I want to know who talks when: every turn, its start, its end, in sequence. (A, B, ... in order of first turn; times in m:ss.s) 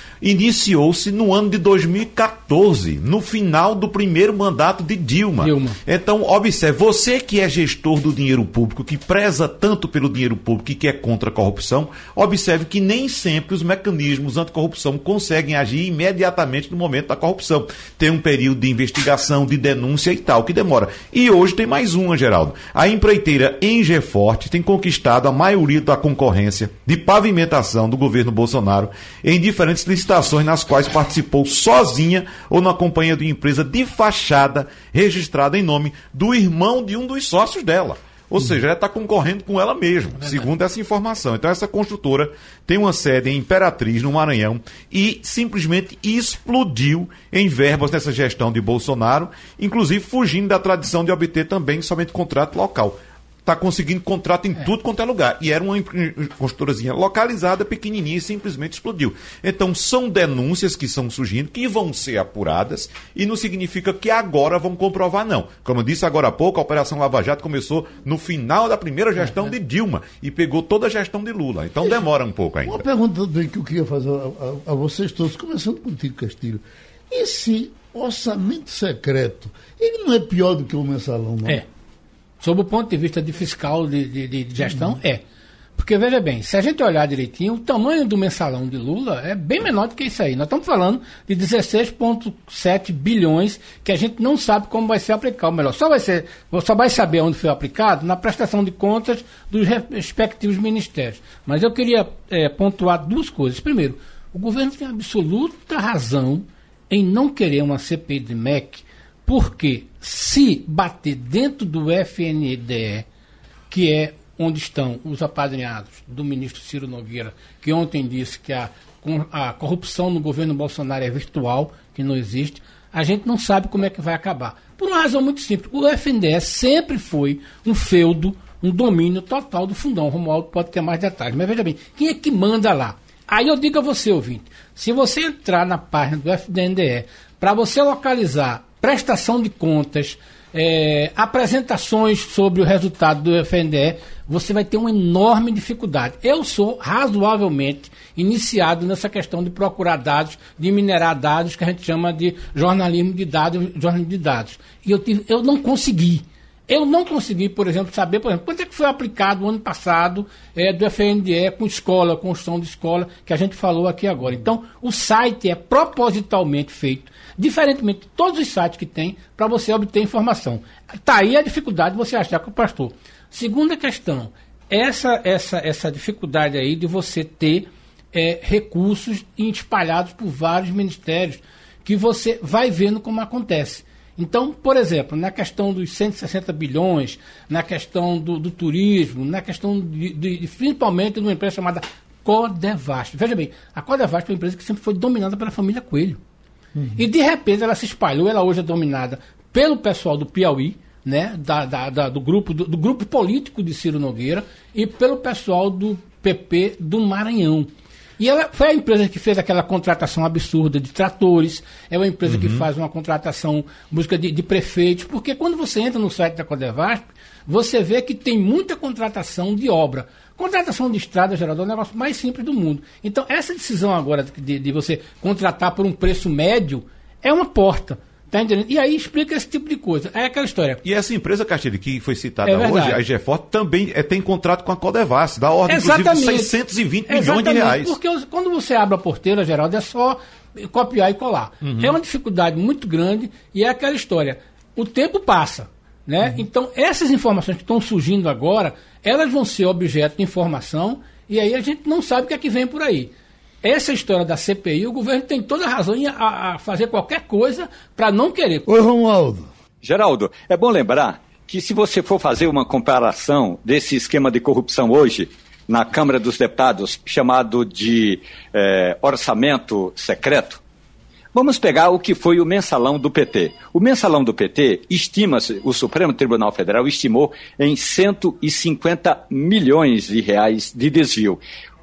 0:00.2-1:12.8 A
0:05.4-0:05.8 B
1:12.6-1:21.6 C
1:22.4-1:25.2 B
1:24.6-1:25.0 C
1:25.8-1:53.0 B
1:53.7-3:16.2 B
3:16.7-3:17.1 C
3:17.0-3:50.8 B
3:32.2-3:32.7 A
3:50.8-3:58.0 A
3:52.4-3:53.0 B
3:55.7-3:56.6 B
3:57.1-4:13.1 B
4:01.6-4:02.0 A
4:13.6-4:18.7 B
4:18.7-4:19.5 C
4:19.8-4:30.6 D
4:31.3-4:41.4 D